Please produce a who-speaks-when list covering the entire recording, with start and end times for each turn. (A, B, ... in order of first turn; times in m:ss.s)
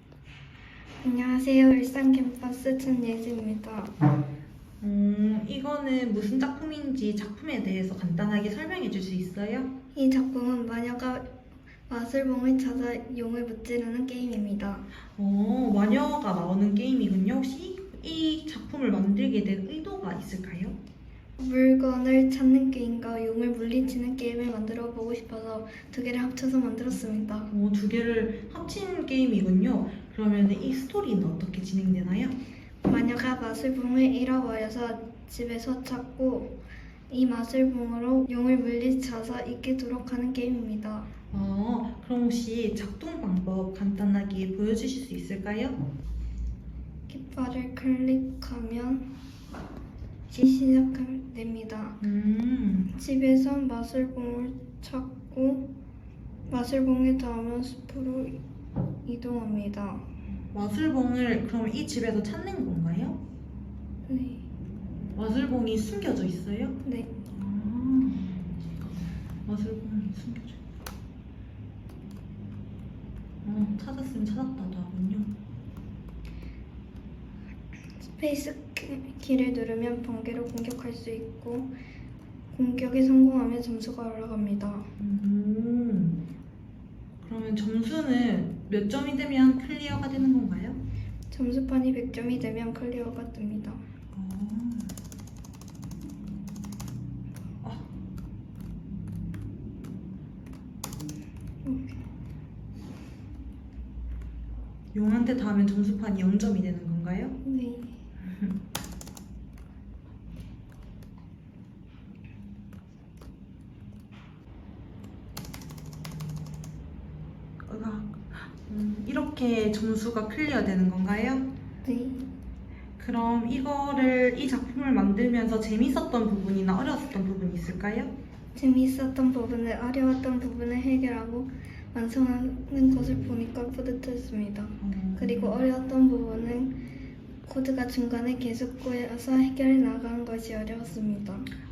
0:01.0-0:04.0 A
0:04.8-0:09.7 B
0:10.0-0:11.3 A
0:11.9-0:14.9 A
0:15.2-0:20.8 B
0:21.4-0:27.5 A
0:27.5-0:32.4 B
0:32.8-0:36.6 A
0:37.1-0:41.1 A
0:41.3-0:45.8 B
0:47.1-0:49.1 A
0:50.3-0:52.0 A
0:52.0-0:52.9 B
0:52.9-0:55.7 A
0:56.5-0:58.4 A
0:59.1-1:00.1 A
1:00.5-1:03.2 B
1:04.1-1:04.4 A
1:05.2-1:08.7 B
1:09.5-1:10.6 B
1:13.4-1:15.3 B
1:18.0-1:21.7 A
1:22.5-1:24.9 A
1:25.0-1:26.2 B
1:27.2-1:30.8 B
1:31.3-1:33.8 A
1:34.1-1:34.9 B
1:41.6-1:41.9 A
1:44.9-1:47.4 B
1:47.4-1:48.0 A
1:57.7-2:01.5 B
2:01.8-2:02.2 A
2:03.0-2:08.1 B
2:08.6-2:16.8 A
2:14.8-2:15.6 B
2:17.4-2:21.5 A